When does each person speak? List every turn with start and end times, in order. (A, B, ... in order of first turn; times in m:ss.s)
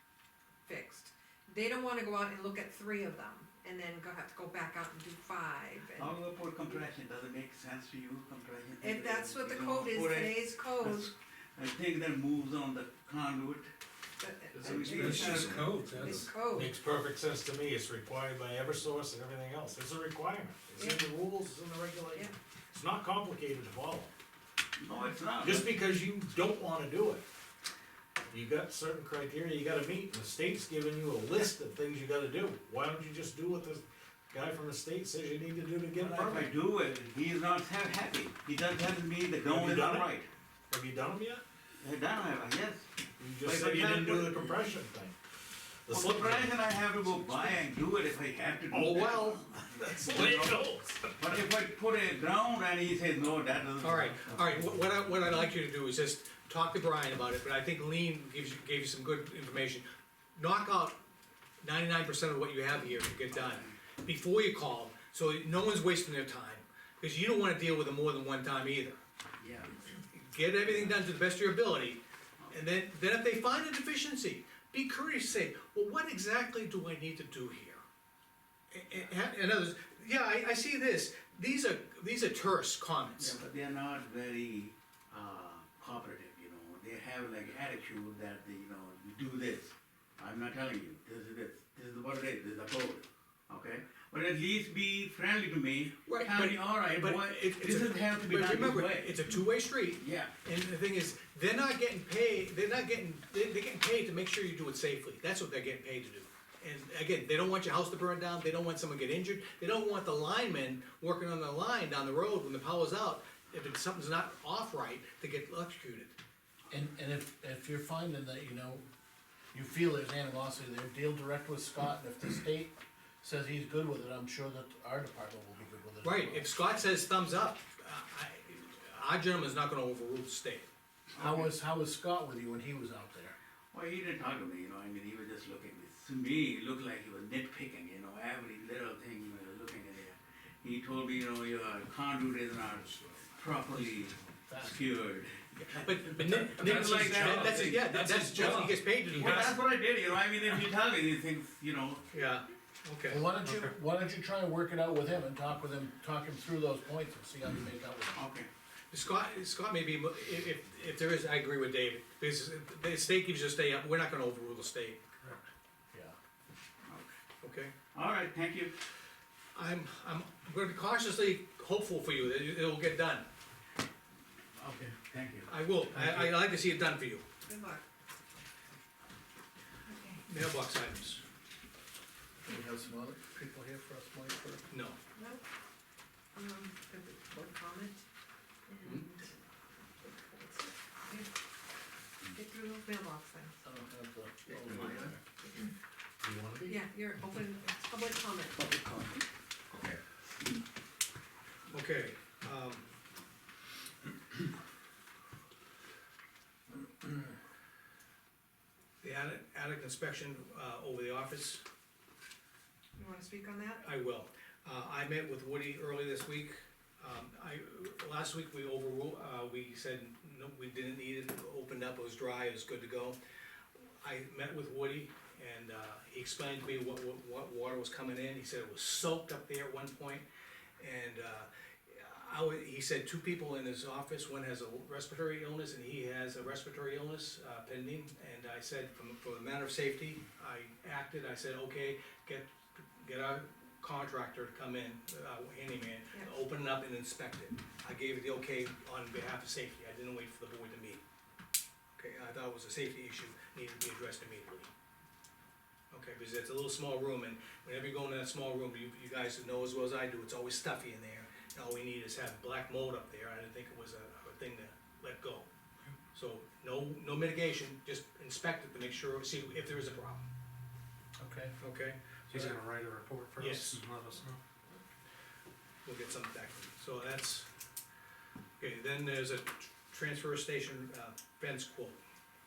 0:00.6-0:06.2 A
0:06.0-0:13.7 B
0:08.8-0:11.1 A
0:14.2-0:16.7 A
0:14.6-0:15.7 B
0:14.8-0:24.1 C
0:20.8-0:21.0 A
0:24.8-0:25.7 B
0:25.4-0:27.2 C
0:28.3-0:36.5 C
0:36.0-0:40.3 B
0:39.4-0:40.2 C
0:40.7-0:41.4 C
0:41.8-0:42.9 B
0:43.2-0:45.2 C
0:43.4-0:44.6 B
0:45.9-0:47.5 C
0:45.9-0:50.6 B
0:48.7-0:51.1 C
0:51.2-0:54.7 B
0:53.8-0:59.8 D
1:00.4-1:01.0 D
1:01.6-1:09.0 D
1:03.3-1:03.8 B
1:09.4-1:09.7 B
1:10.1-1:17.8 D
1:10.6-1:11.0 B
1:18.7-1:23.4 D
1:23.2-1:39.2 B
1:36.1-1:56.2 D
1:40.0-1:40.3 B
1:56.7-1:58.8 E
1:59.5-2:06.5 E
2:06.0-2:10.7 D
2:11.2-2:13.3 E
2:11.2-2:11.4 B
2:13.7-2:32.0 B
2:22.8-2:24.8 E
2:25.6-2:29.6 D
2:26.2-2:28.7 C
2:32.1-2:33.2 D
2:33.1-2:38.2 E
2:38.1-2:38.5 B
2:38.9-2:45.0 D
2:47.4-2:47.7 D
2:47.9-2:48.7 B
2:49.6-2:53.3 D
2:54.6-2:56.3 B
2:55.5-2:57.2 D
2:57.4-2:57.8 A
2:59.9-3:00.2 A
3:00.3-3:01.2 D
3:02.4-3:04.7 E
3:04.7-3:05.0 D
3:05.2-3:05.4 A
3:06.4-3:08.0 A
3:08.7-3:09.3 A
3:08.8-3:09.1 D
3:10.3-3:11.3 A
3:12.3-3:13.6 A
3:13.6-3:15.2 E
3:14.5-3:15.2 B
3:16.2-3:16.8 E
3:16.7-3:18.8 A
3:21.7-3:22.8 D
3:29.0-3:31.6 D
3:33.0-3:33.8 A
3:33.8-3:43.2 D
3:44.0-3:50.2 D
3:50.8-4:11.0 D
4:12.0-4:14.7 D
4:15.9-4:25.5 D
4:26.1-4:30.2 D
4:31.2-4:31.6 E
4:31.6-4:32.5 D
4:32.3-4:34.4 F
4:33.4-4:33.8 D
4:35.8-4:37.5 D
4:38.6-4:42.0 D